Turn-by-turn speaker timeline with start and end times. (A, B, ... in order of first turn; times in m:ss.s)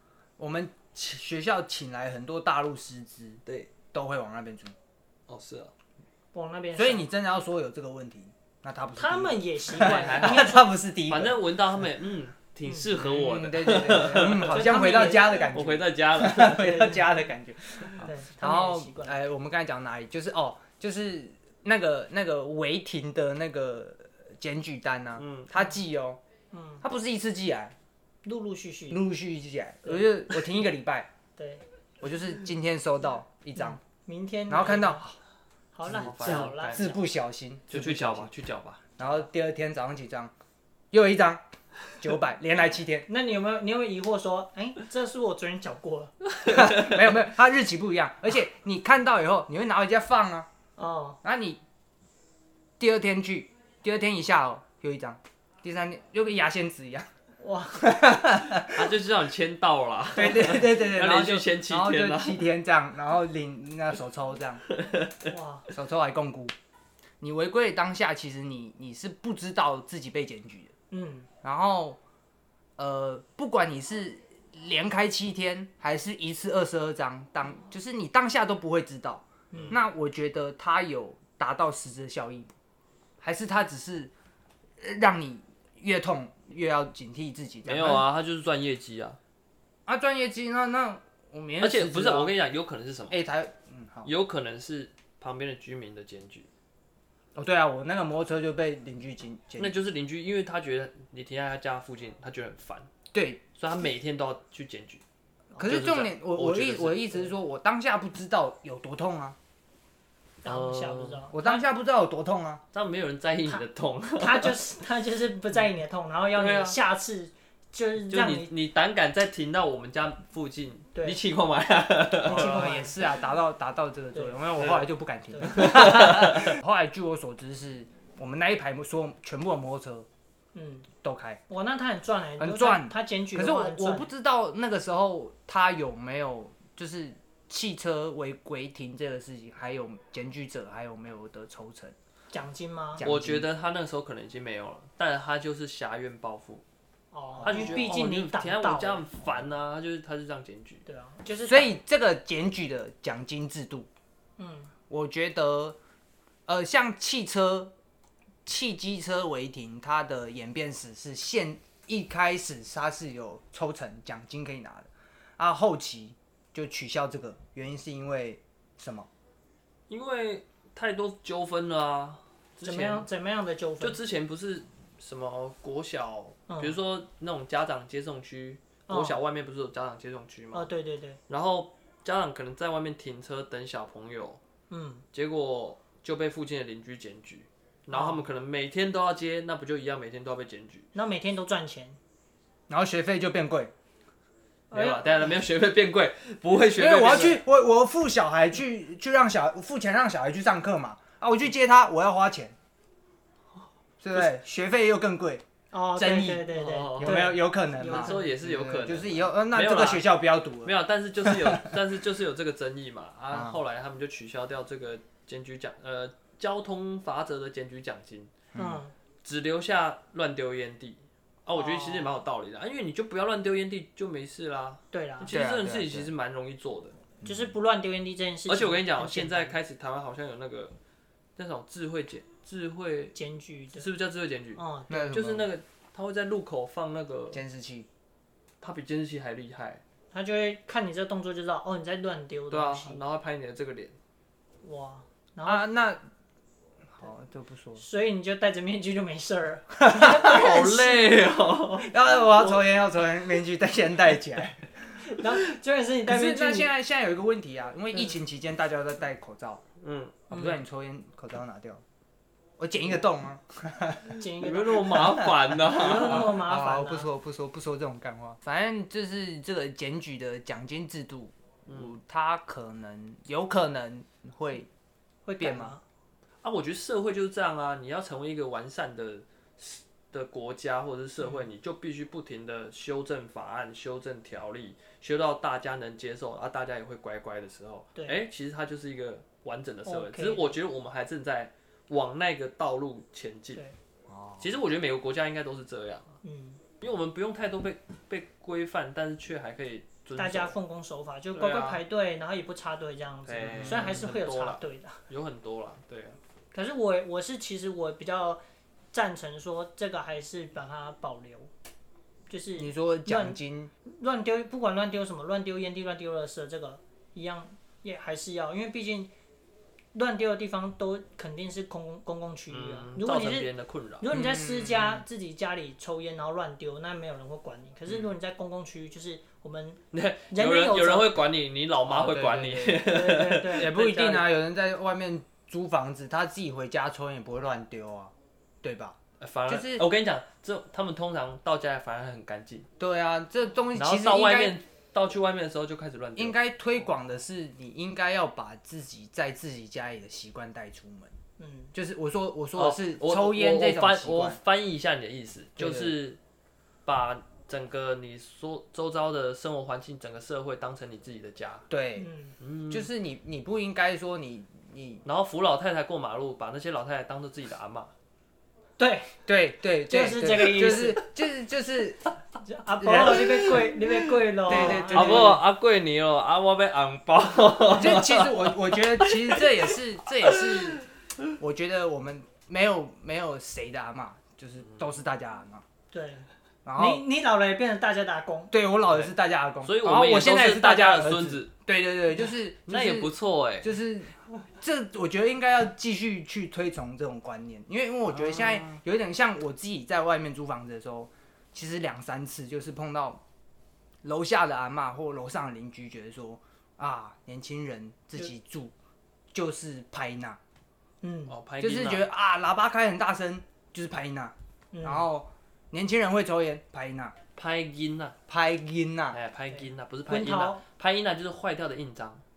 0:00.4-0:04.8 A
0:03.5-0:03.7 B
0:05.3-0:05.7 B
0:06.3-0:07.1 C
0:06.8-0:11.4 A
0:09.0-0:10.6 C
0:09.7-0:16.8 B
0:12.6-0:12.9 C
0:13.0-0:26.2 A
0:14.5-0:15.5 C
0:16.5-0:17.1 C
0:18.0-0:19.2 C
0:25.2-0:25.5 B
0:26.5-0:26.8 C
0:26.8-0:27.8 A
0:28.2-0:29.0 C
0:28.9-0:31.1 A
0:31.4-0:31.6 C
0:32.0-0:33.8 A
0:33.6-0:35.1 C
0:34.5-0:35.2 A
0:35.7-0:37.0 C
0:35.9-0:37.0 B
0:35.9-0:38.3 A
0:37.7-0:38.8 B
0:39.0-0:40.3 A
0:40.9-0:41.4 A
0:42.0-0:43.1 A
0:43.1-0:46.1 C
0:46.3-0:47.1 B
0:46.5-0:50.5 A
0:50.8-0:51.2 C
0:51.2-0:51.6 A
0:52.8-0:57.1 A
0:57.4-0:58.1 C
0:57.8-0:59.0 A
0:58.5-1:02.4 B
1:00.2-1:04.6 A
1:04.7-1:05.3 B
1:05.3-1:05.7 C
1:05.7-1:06.5 A
1:07.2-1:10.7 A
1:10.9-1:11.3 C
1:11.4-1:12.0 A
1:12.8-1:22.5 A
1:19.5-1:19.8 C
1:23.2-1:24.1 A
1:24.8-1:28.1 A
1:27.6-1:29.2 B
1:29.9-1:32.3 A
1:31.6-1:33.2 B
1:33.1-1:34.1 A
1:34.0-1:36.5 B
1:37.4-1:39.8 A
1:39.6-1:42.9 B
1:43.1-1:43.4 A
1:43.6-1:45.0 B
1:45.6-1:49.4 A
1:45.6-1:47.3 B
1:50.4-1:51.6 C
1:50.4-1:51.3 B
1:51.3-1:52.6 A
1:52.7-1:54.6 B
1:54.2-1:58.5 C
1:56.3-1:56.8 B
1:58.1-2:02.8 B
2:02.2-2:03.0 C
2:02.2-2:10.1 A
2:04.1-2:04.4 C
2:04.6-2:04.9 B
2:05.3-2:05.6 C
2:05.5-2:06.6 B
2:10.6-2:10.9 C
2:11.0-2:11.4 A
2:11.5-2:14.1 C
2:12.4-2:22.0 A
2:22.3-2:23.0 C
2:23.0-2:23.5 A
2:23.0-2:26.6 B
2:27.1-2:29.3 C
2:27.4-2:27.8 A
2:27.4-2:30.8 B
2:30.9-2:31.7 C
2:31.4-2:33.9 A
2:34.4-2:34.7 C
2:34.9-2:35.8 A
2:36.5-2:37.7 A
2:38.5-2:49.1 A
2:49.9-2:53.1 B
2:52.6-2:54.0 C
2:53.8-3:00.7 B
2:56.5-2:56.8 C
2:58.9-2:59.2 C
3:00.5-3:01.2 C
3:01.3-3:04.4 B
3:04.7-3:05.0 C
3:05.1-3:10.9 B
3:07.9-3:08.2 C
3:10.9-3:12.0 C
3:12.7-3:13.7 A
3:14.7-3:15.1 C
3:14.7-3:17.4 B
3:16.8-3:22.6 A
3:24.0-3:25.4 A
3:25.7-3:28.3 C
3:26.0-3:31.8 A
3:26.5-3:27.3 B
3:27.9-3:30.1 B
3:30.6-3:38.4 B
3:33.3-3:33.6 A
3:38.5-3:38.8 A
3:38.6-3:38.9 C
3:39.2-3:47.0 B
3:41.5-3:42.1 C
3:44.9-3:45.3 C
3:45.3-3:46.1 A
3:47.2-3:47.5 A
3:47.2-3:49.6 C
3:48.5-3:50.8 B
3:51.4-3:53.2 B
3:53.1-3:53.9 C
3:53.7-3:57.4 B
3:54.6-3:55.1 C
3:54.9-3:55.5 A
3:57.3-3:57.9 A
3:58.6-3:59.8 B
4:00.1-4:03.0 C
4:02.5-4:04.0 B
4:04.6-4:05.7 C
4:05.4-4:06.0 A
4:06.9-4:07.8 A
4:07.8-4:11.4 C
4:09.8-4:10.5 A
4:10.0-4:12.6 B
4:11.8-4:15.0 A
4:15.0-4:16.7 C
4:16.1-4:19.6 A
4:19.8-4:20.2 B
4:20.3-4:20.6 C
4:20.3-4:21.8 A
4:22.6-4:24.2 A
4:24.2-4:25.1 C
4:24.4-4:26.4 B
4:24.9-4:34.7 A
4:25.7-4:27.1 C
4:31.7-4:32.0 B
4:35.2-4:35.8 C
4:35.4-4:35.8 A
4:36.4-4:53.6 B
4:41.2-4:41.5 C
4:48.0-4:48.2 C
4:49.9-4:50.5 C
4:54.1-4:54.5 A
4:54.4-4:56.2 B
4:56.2-4:56.6 C
4:56.8-5:00.6 B
5:00.2-5:05.0 C
5:01.3-5:01.8 B
5:03.2-5:06.2 B
5:03.5-5:04.0 A
5:06.5-5:08.4 C
5:08.9-5:11.5 C
5:12.3-5:19.1 C
5:12.6-5:13.7 A
5:19.9-5:31.1 C
5:22.5-5:24.1 B
5:24.1-5:25.0 A
5:29.9-5:34.0 B
5:31.9-5:32.9 A
5:32.8-5:34.2 C
5:33.5-5:39.9 A
5:39.2-5:42.7 B
5:42.8-5:44.6 A
5:43.8-5:46.4 B
5:46.2-5:51.1 A
5:51.4-5:51.7 C
5:51.7-5:54.4 A
5:52.6-5:56.2 B
5:55.6-5:55.9 A
5:56.9-6:01.7 B
6:01.7-6:02.1 A
6:02.0-6:02.4 C
6:02.4-6:02.9 B
6:02.7-6:05.0 A
6:05.0-6:07.9 B
6:08.8-6:09.2 C
6:09.3-6:12.0 A
6:09.9-6:11.0 C
6:12.4-6:15.4 C
6:12.8-6:13.5 A
6:13.1-6:13.5 B
6:14.5-6:15.4 A
6:14.5-6:20.8 B
6:17.7-6:20.8 A
6:21.4-6:25.6 A
6:25.9-6:28.5 C
6:26.6-6:27.0 A
6:28.5-6:43.2 A
6:29.6-6:31.5 B
6:32.7-6:33.8 B
6:38.4-6:38.6 B
6:44.0-6:48.7 A
6:49.3-6:50.4 A
6:51.0-6:51.4 C
6:51.3-6:52.1 B
6:51.6-6:57.2 A
6:54.7-6:55.1 C
6:57.4-6:58.2 B
6:58.3-6:59.2 A
6:59.1-7:02.2 B
6:59.5-7:00.6 C